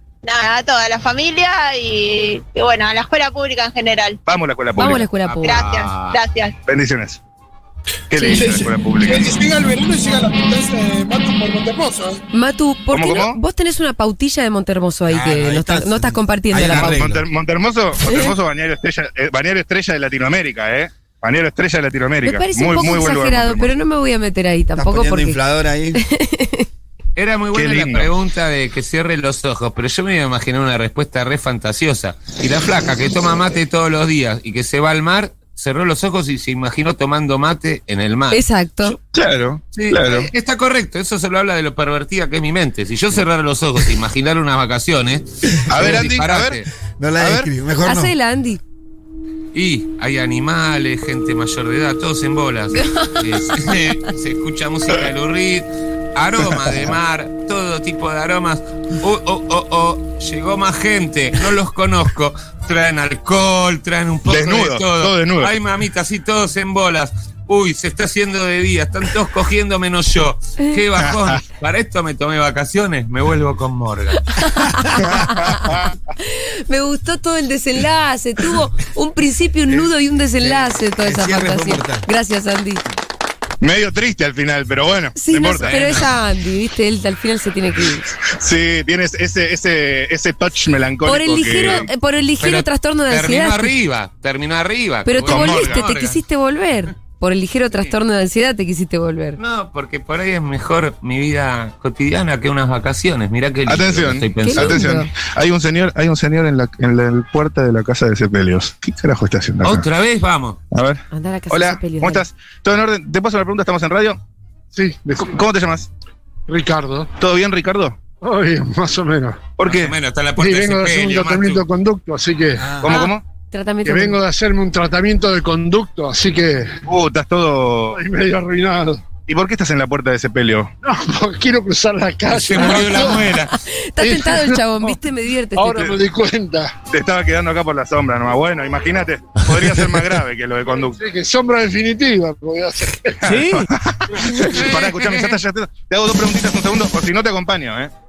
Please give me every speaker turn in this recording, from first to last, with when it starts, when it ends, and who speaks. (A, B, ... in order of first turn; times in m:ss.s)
0:00.2-0:04.2 A
0:04.3-0:05.1 B
0:04.8-0:05.6 C
0:05.2-0:06.2 D
0:05.4-0:06.6 A
0:06.7-0:07.2 B
0:08.1-0:09.3 B
0:08.2-0:12.2 E
0:12.3-0:17.1 C
0:12.9-0:13.4 B
0:15.1-0:17.2 F
0:16.6-0:23.7 B
0:18.1-0:18.3 C
0:22.2-0:25.4 C
0:24.8-0:26.0 F
0:26.0-0:26.7 C
0:27.2-0:39.0 D
0:27.5-0:28.1 B
0:38.3-0:39.0 C
0:39.1-0:40.3 B
0:39.7-0:46.7 D
0:45.7-0:46.6 B
0:45.8-0:46.1 F
0:47.0-0:48.1 F
0:47.2-0:47.5 B
0:47.8-0:48.6 C
0:49.5-1:14.3 D
0:52.8-0:53.2 C
1:04.3-1:05.5 B
1:11.0-1:11.4 B
1:14.3-1:22.8 C
1:15.0-1:15.9 B
1:20.4-1:22.1 F
1:23.6-1:25.8 B
1:25.2-1:28.1 C
1:25.6-1:26.1 D
1:28.2-1:31.9 B
1:31.0-1:33.7 C
1:32.4-1:36.2 D
1:35.1-1:39.4 C
1:35.2-1:35.8 B
1:39.4-1:44.8 D
1:43.7-1:49.9 B
1:44.4-1:45.1 C
1:49.6-1:50.6 D
1:50.7-1:54.2 B
1:51.1-1:52.2 C
1:54.7-1:55.4 G
1:55.2-1:55.9 B
1:56.5-1:57.1 G
1:57.2-1:58.0 B
1:58.2-1:59.5 G
1:59.6-2:00.0 B
1:59.6-2:01.6 D
2:00.4-2:02.8 G
2:02.6-2:03.0 F
2:02.8-2:03.2 B
2:02.9-2:04.2 C
2:03.8-2:06.8 G
2:06.9-2:08.0 B
2:07.9-2:09.0 G
2:09.3-2:10.7 B
2:10.8-2:13.4 G
2:12.3-2:13.6 D
2:12.6-2:12.9 B
2:13.3-2:15.9 C
2:14.0-2:15.0 G
2:15.6-2:16.8 G
2:16.9-2:21.0 B
2:20.8-2:23.4 G
2:23.2-2:27.9 B
2:23.3-2:23.7 F